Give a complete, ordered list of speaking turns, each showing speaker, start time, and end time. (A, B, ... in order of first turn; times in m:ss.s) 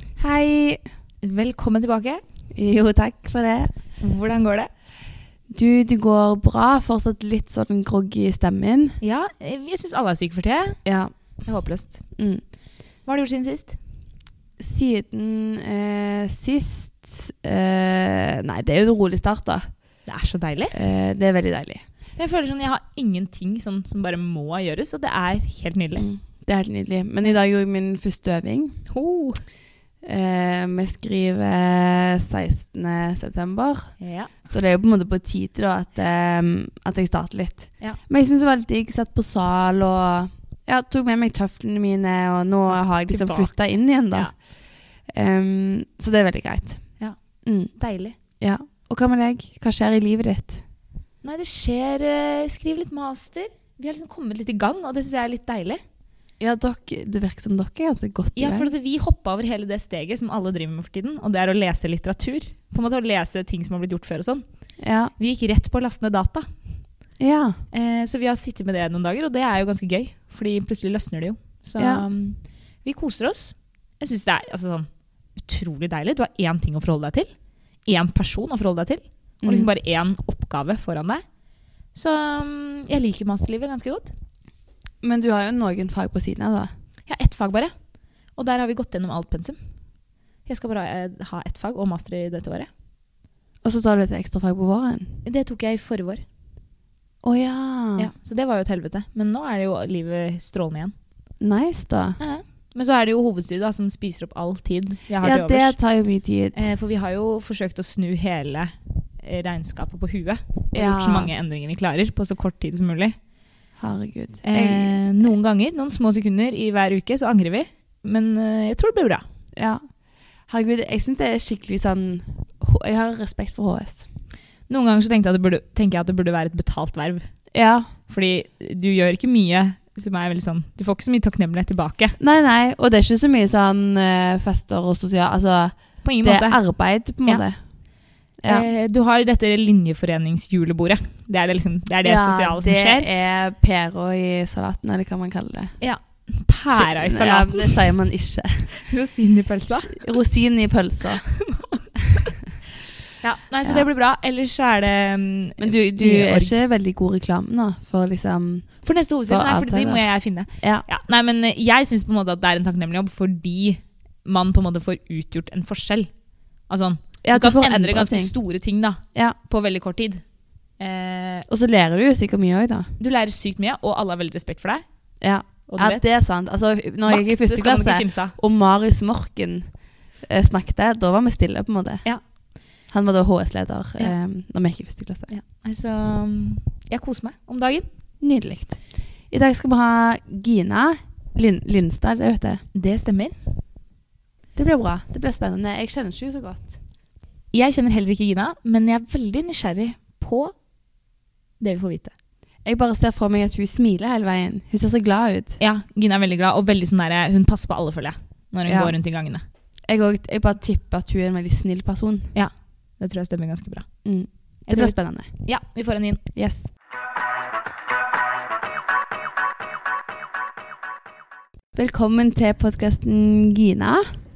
0:00.2-0:00.8 A
0:01.2-0:02.2 B
0:02.5-0:03.7 A
0:04.0-0:04.7 B
0:05.5-0:09.0 A
0:09.0-0:12.5 B
0:10.8-0:11.5 A
0:12.2-0:12.4 A
0:13.0-0:13.8 B
0:14.6-0:20.0 A
0:20.0-0:20.7 B
0:20.7-0:21.8 A
0:22.2-0:26.1 B
0:26.0-0:28.8 A
0:28.9-0:29.4 B
0:30.0-0:50.6 A
0:34.0-0:34.3 B
0:42.7-0:43.6 B
0:47.0-0:48.2 B
0:51.2-0:55.8 B
0:56.4-0:58.7 A
0:58.4-1:06.7 B
1:04.8-1:05.1 A
1:07.2-1:07.6 A
1:07.7-1:21.3 B
1:11.8-1:12.0 A
1:19.4-1:19.7 A
1:21.9-1:24.1 B
1:25.0-1:26.7 A
1:27.0-1:32.7 B
1:33.6-1:35.2 A
1:35.2-1:36.2 B
1:37.2-1:38.1 A
1:38.0-1:40.9 B
1:41.4-1:42.2 A
1:42.2-1:45.8 B
1:45.2-1:46.6 A
1:46.5-1:53.2 B
1:50.7-1:51.3 A
1:53.8-1:55.1 A
1:54.4-1:59.2 B
1:59.6-2:04.1 A
2:04.7-2:07.5 B
2:07.5-2:07.9 A
2:08.0-2:12.2 B
2:12.2-2:17.7 A
2:16.0-2:17.4 B
2:18.4-2:23.1 B
2:22.0-2:28.9 A
2:25.8-2:27.9 B
2:28.8-2:30.0 B
2:29.7-2:31.4 A
2:31.4-2:32.2 B
2:33.2-2:36.6 B
2:33.6-2:33.9 A
2:35.6-2:40.8 A
2:38.8-2:51.5 B
2:47.2-2:48.3 A
2:51.5-2:52.9 A
2:53.0-2:54.8 B
2:55.2-3:05.3 A
2:55.4-2:56.0 B
2:57.0-2:58.3 B
3:05.3-3:07.9 B
3:08.2-3:12.6 A
3:12.7-3:13.4 B
3:14.5-3:16.8 A
3:17.5-3:20.6 B
3:21.6-3:22.1 B
3:22.6-3:25.6 A
3:25.6-3:29.4 B
3:28.6-3:32.3 A
3:32.3-3:34.1 B
3:34.0-3:35.5 A
3:34.6-3:36.2 B
3:36.3-3:36.7 A
3:41.7-3:44.2 A